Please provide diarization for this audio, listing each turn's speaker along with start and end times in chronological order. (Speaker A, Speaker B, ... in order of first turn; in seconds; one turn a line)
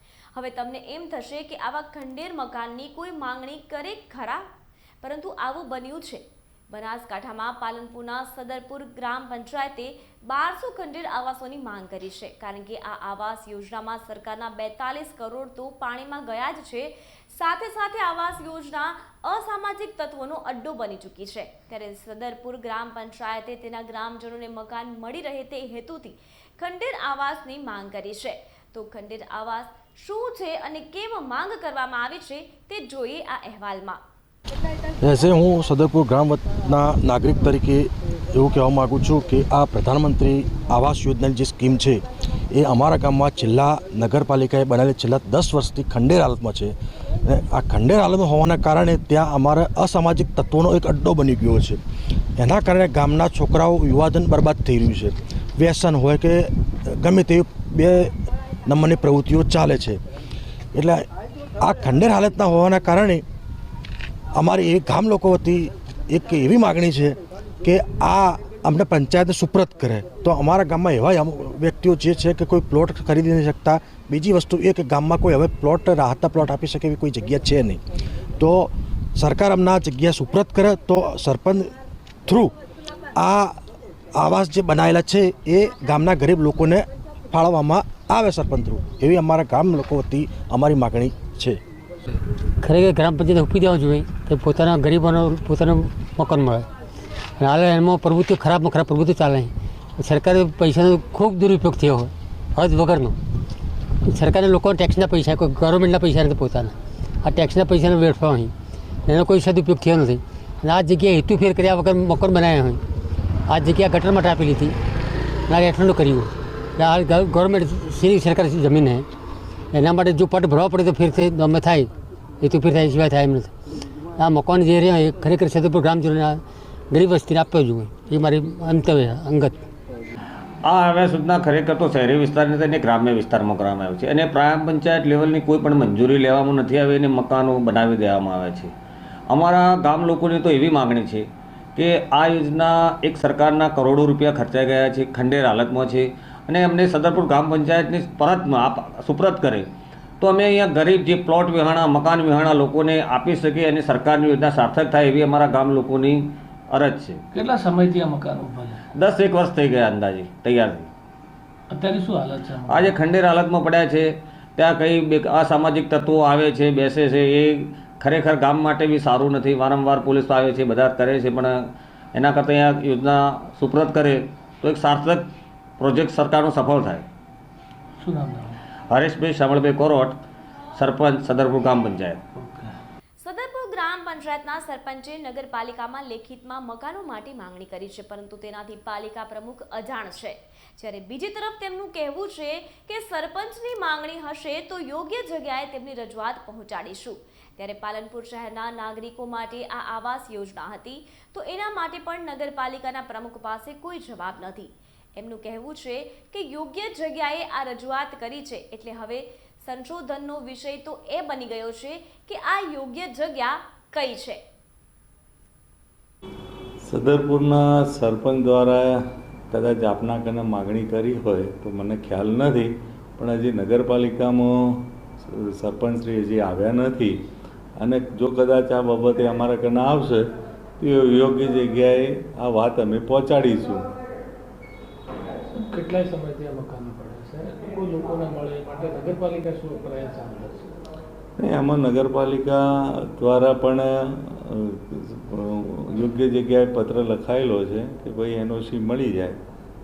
Speaker A: 0.3-4.5
Speaker A: 5.0-34.0
Speaker B: 35.0-46.7
Speaker B: 47.2-51.8
Speaker B: 52.4-58.1
Speaker B: 58.7-60.0
Speaker B: 60.7-61.0
Speaker B: 61.6-63.2
Speaker B: 64.3-77.8
Speaker B: 78.4-81.7
Speaker B: 82.3-82.5
Speaker B: 83.2-83.6
Speaker B: 84.1-91.6
Speaker C: 92.6-96.7
Speaker C: 97.4-103.2
Speaker C: 104.0-108.5
Speaker C: 109.1-112.8
Speaker C: 113.5-114.8
Speaker C: 115.5-119.1
Speaker C: 119.7-123.5
Speaker C: 124.2-129.6
Speaker D: 130.7-138.7
Speaker D: 139.3-149.7
Speaker D: 150.2-157.2
Speaker E: 157.3-158.8
Speaker D: 159.0-160.9
Speaker E: 161.7-162.9
Speaker D: 162.6-171.6
Speaker D: 172.1-175.3
Speaker D: 175.8-177.1
Speaker E: 178.0-178.6
Speaker D: 178.9-180.2
Speaker D: 180.8-182.2
Speaker E: 182.3-182.7
Speaker A: 183.2-214.4
Speaker F: 216.8-227.2
Speaker F: 227.8-230.3
Speaker F: 230.8-233.9
Speaker E: 235.5-240.7
Speaker F: 241.4-249.4